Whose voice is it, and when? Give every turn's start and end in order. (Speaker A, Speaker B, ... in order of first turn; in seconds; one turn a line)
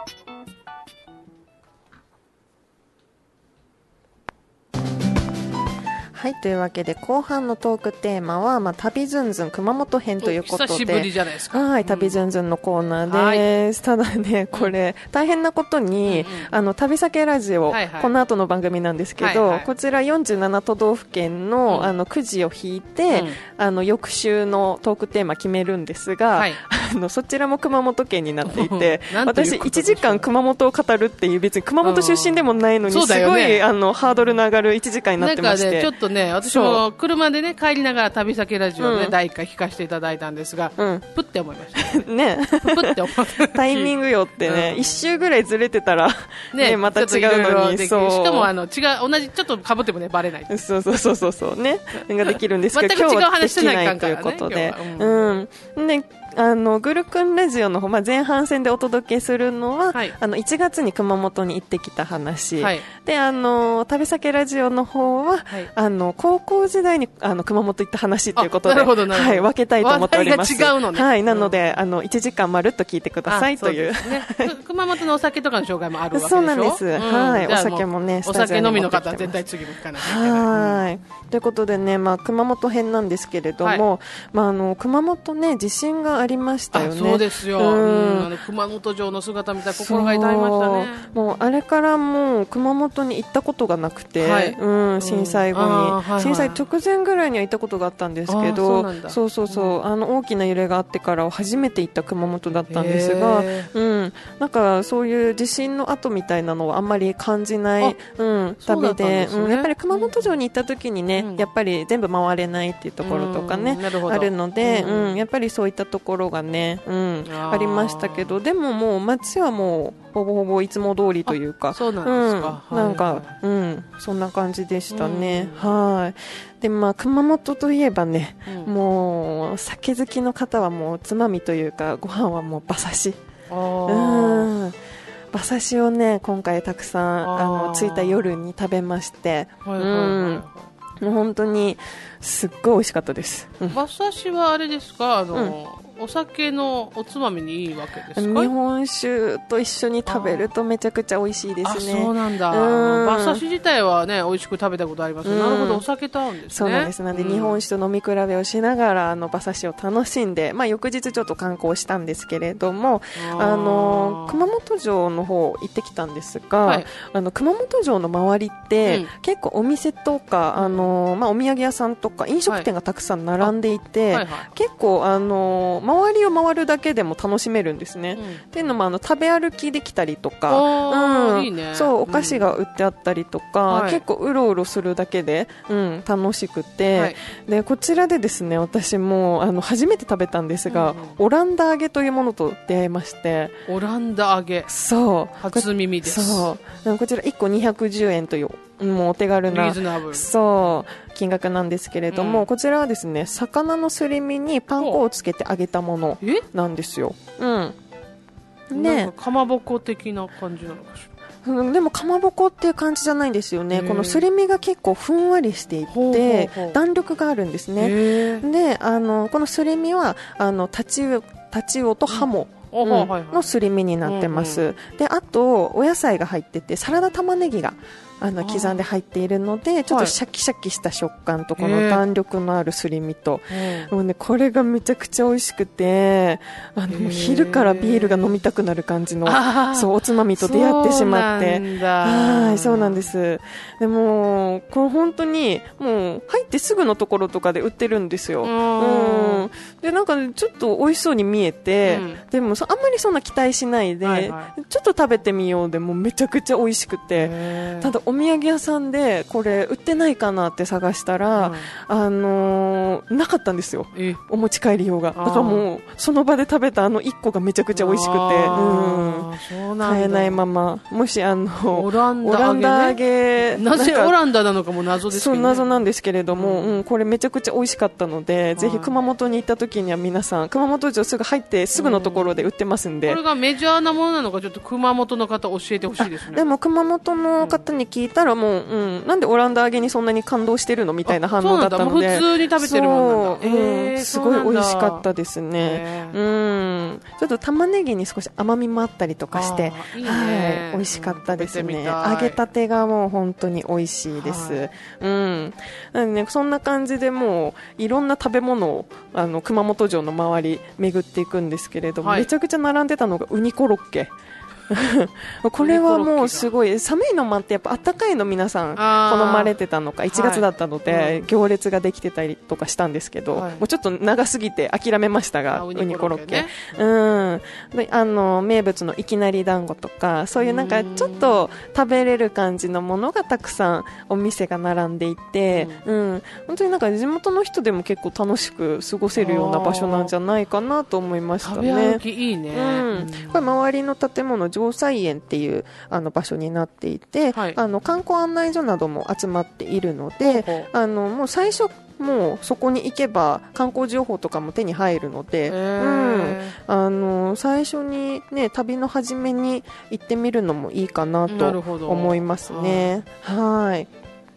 Speaker A: 6.1-35.9
Speaker B: 10.2-12.2
Speaker B: 13.1-13.4
Speaker B: 16.1-16.5
Speaker B: 17.7-18.1
Speaker B: 19.2-19.7
Speaker B: 21.7-21.9
Speaker B: 23.1-23.4
Speaker B: 26.3-26.6
Speaker B: 28.4-30.3
Speaker B: 31.8-34.4
Speaker B: 35.2-42.1
Speaker A: 36.4-36.8
Speaker A: 38.8-39.1
Speaker A: 40.8-41.1
Speaker A: 41.8-48.5
Speaker B: 42.6-44.9
Speaker B: 46.5-50.6
Speaker A: 50.5-74.5
Speaker B: 52.0-55.3
Speaker B: 62.6-62.9
Speaker B: 68.4-71.5
Speaker B: 73.3-80.9
Speaker A: 76.1-88.3
Speaker B: 86.7-91.1
Speaker A: 89.7-133.2
Speaker B: 94.2-96.6
Speaker B: 98.3-99.8
Speaker B: 102.7-103.7
Speaker B: 108.6-110.3
Speaker B: 111.2-111.5
Speaker B: 113.0-115.2
Speaker B: 117.2-118.4
Speaker B: 121.3-123.4
Speaker B: 124.9-125.7
Speaker B: 128.5-128.7
Speaker B: 133.5-134.5
Speaker A: 133.9-134.8
Speaker A: 135.3-140.4
Speaker B: 137.2-138.4
Speaker B: 139.6-140.7
Speaker A: 141.0-143.8
Speaker B: 143.7-148.5
Speaker A: 148.2-153.4
Speaker B: 150.1-150.5
Speaker B: 151.6-157.6
Speaker A: 155.2-155.8
Speaker A: 156.5-193.6
Speaker B: 163.2-164.5
Speaker B: 168.8-169.1
Speaker B: 170.6-170.9
Speaker B: 174.1-174.5
Speaker B: 178.2-178.5
Speaker B: 180.5-182.5
Speaker B: 183.7-184.0
Speaker B: 190.7-191.2
Speaker B: 193.7-194.7
Speaker A: 194.7-207.8
Speaker B: 195.4-196.5
Speaker B: 199.5-200.3
Speaker B: 202.1-202.5
Speaker A: 208.7-209.1
Speaker B: 208.7-211.1
Speaker A: 211.4-274.2
Speaker B: 213.7-214.2
Speaker B: 215.9-216.8
Speaker B: 217.8-218.4
Speaker B: 222.1-223.5
Speaker B: 224.0-224.7
Speaker B: 228.4-228.8
Speaker B: 229.9-230.2
Speaker B: 231.6-232.0
Speaker B: 233.5-233.9
Speaker B: 236.9-238.4
Speaker B: 239.2-243.1
Speaker B: 248.4-249.5
Speaker B: 251.8-252.2
Speaker B: 254.0-254.5
Speaker B: 257.1-257.9
Speaker B: 261.4-261.7
Speaker B: 263.9-264.2
Speaker B: 265.2-265.6
Speaker B: 267.7-270.4
Speaker B: 271.7-273.0
Speaker B: 273.5-275.7
Speaker A: 275.1-283.2
Speaker B: 276.4-276.8
Speaker B: 278.6-278.9
Speaker B: 281.8-282.4
Speaker B: 283.1-286.5
Speaker A: 286.0-314.1
Speaker B: 287.4-287.6
Speaker B: 291.1-295.1
Speaker B: 295.6-296.2
Speaker B: 299.3-302.4
Speaker B: 304.1-304.7
Speaker B: 312.0-312.3
Speaker A: 314.7-363.9
Speaker B: 315.6-316.5
Speaker B: 318.8-319.5
Speaker B: 320.1-321.3
Speaker B: 323.3-323.6
Speaker B: 325.5-326.8
Speaker B: 330.4-331.4
Speaker B: 335.5-335.8
Speaker B: 339.2-340.1
Speaker B: 341.4-343.5
Speaker B: 347.3-347.6
Speaker B: 350.2-350.7
Speaker B: 355.5-356.6
Speaker B: 361.3-362.9